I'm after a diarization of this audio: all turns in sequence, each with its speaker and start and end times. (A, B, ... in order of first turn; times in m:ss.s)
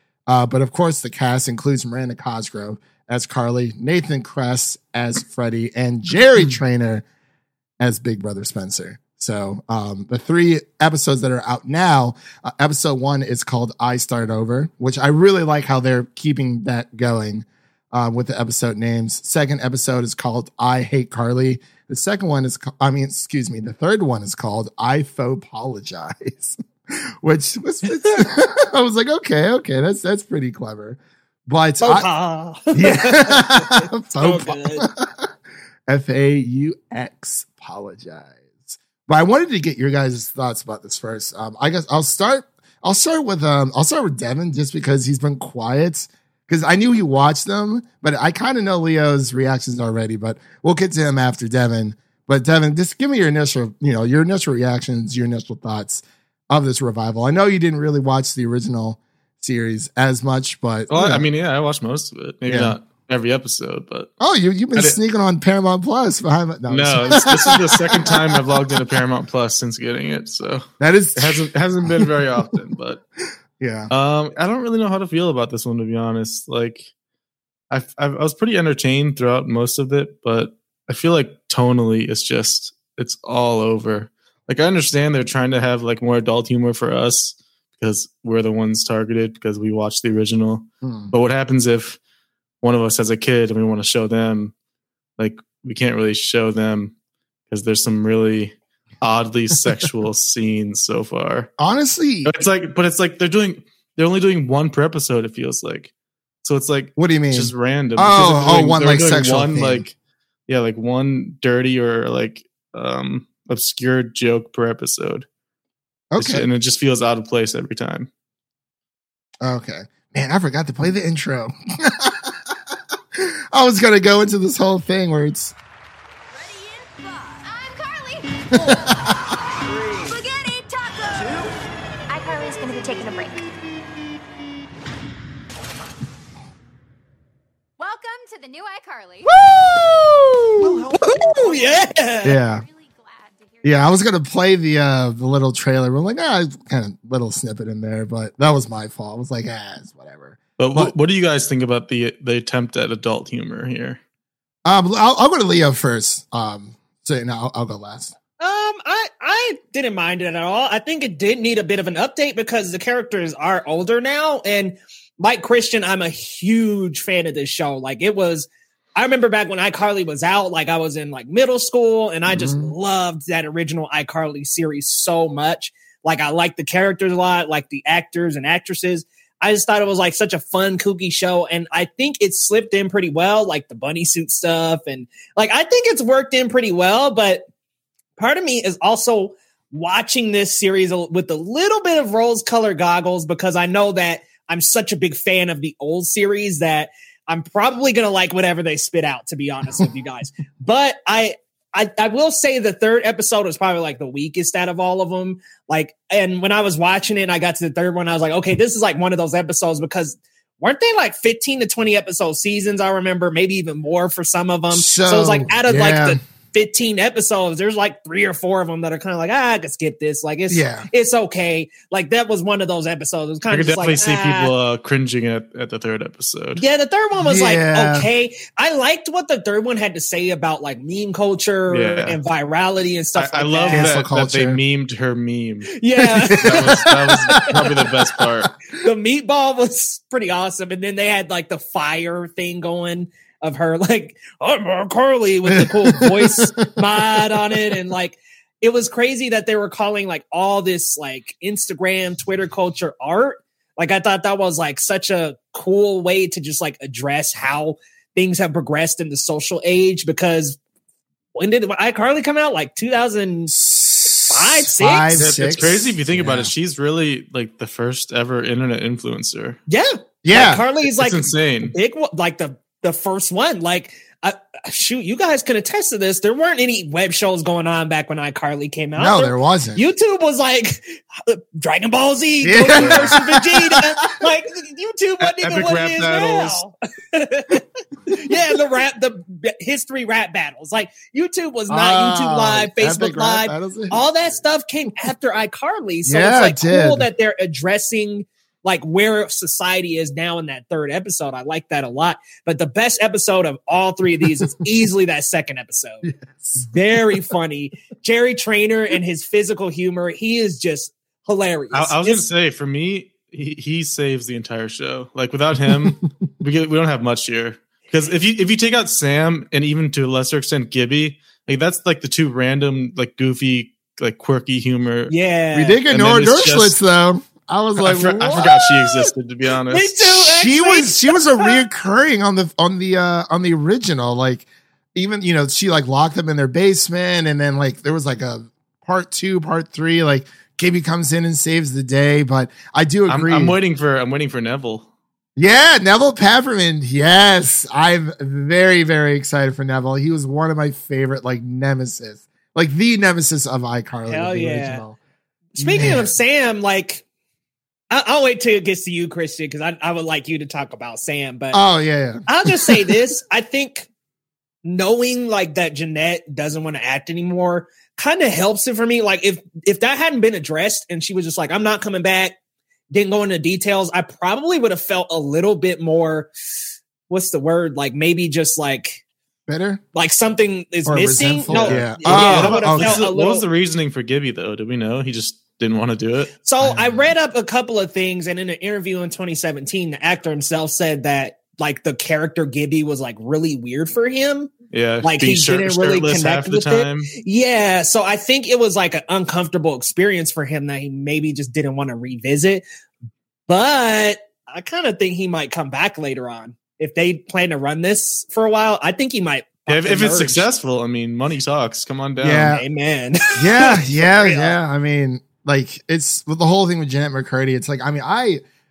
0:00.3-0:07.0 A
0:07.8-0:32.1 A
0:31.8-0:34.8 B
0:32.7-0:35.3 A
0:35.9-1:01.2 A
1:00.9-1:04.1 C
1:02.5-1:02.8 A
1:04.2-1:08.5 A
1:06.7-1:13.0 C
1:10.8-1:12.2 A
1:13.6-1:13.9 A
1:13.9-1:16.9 C
1:17.7-1:32.0 C
1:30.8-1:31.1 A
1:32.6-1:34.5 C
1:35.2-1:36.9 C
1:37.5-1:41.5 C
1:41.6-1:42.3 A
1:42.2-1:45.9 C
1:46.4-1:49.9 C
1:47.0-1:49.8 A
1:50.5-1:55.3 C
1:56.1-1:56.5 A
1:56.2-1:58.1 C
1:59.4-2:02.5 A
2:03.1-2:05.5 A
2:06.4-2:11.5 D
2:08.5-2:09.1 A
2:12.1-2:13.5 D
2:17.8-2:19.4 D
2:20.6-2:24.0 D
2:20.8-2:22.4 B
2:22.2-2:22.6 A
2:23.6-2:30.9 A
2:30.6-2:34.0 C
2:34.6-2:38.2 A
2:38.4-3:07.4 B
2:52.3-2:52.7 A
3:08.2-3:44.5 B
3:34.7-3:36.2 A
3:40.5-3:40.9 A
3:43.5-3:46.6 C
3:46.6-3:53.9 B
3:47.2-3:48.1 A
3:51.7-3:52.2 C
3:53.2-3:58.5 C
3:53.7-3:54.6 A
3:55.8-3:57.5 B
3:56.3-3:58.3 A
3:58.8-4:20.6 B
4:05.5-4:07.6 A
4:21.4-4:23.6 B
4:23.5-4:26.5 A
4:24.2-4:25.6 B
4:25.2-4:29.6 C
4:29.7-5:06.1 B
4:30.2-4:30.6 A
4:30.9-4:31.7 C
4:39.0-4:39.8 A
4:42.4-4:44.2 A
4:42.8-4:43.1 C
4:45.2-4:46.6 C
4:51.7-4:54.2 A
4:56.0-4:57.1 A
5:04.2-5:04.6 A
5:06.0-5:06.7 A
5:06.6-5:12.2 B
5:11.7-5:25.1 C
5:15.7-5:16.1 A
5:25.1-5:25.8 B
5:25.5-5:28.5 A
5:25.9-5:26.8 C
5:27.8-5:30.1 C
5:28.4-5:29.1 B
5:29.7-5:31.6 B
5:30.2-5:43.6 A
5:43.1-5:44.9 C
5:45.4-5:55.0 A
5:54.1-5:54.8 B
5:55.6-5:57.0 B
5:55.6-5:56.1 A
5:57.9-6:01.6 B
6:01.5-6:02.9 A
6:02.3-6:03.9 B
6:04.6-6:12.4 B
6:12.9-6:16.3 B
6:17.1-6:19.0 B
6:19.5-6:19.8 A
6:19.9-6:23.5 B
6:20.9-6:23.0 A
6:21.5-6:26.3 C
6:26.4-6:34.5 B
6:26.6-6:27.1 A
6:34.7-6:37.1 C
6:35.0-6:42.6 B
6:43.5-6:50.5 B
6:49.7-6:52.6 C
6:52.2-6:52.6 A
6:52.5-6:54.6 B
6:53.4-6:58.4 A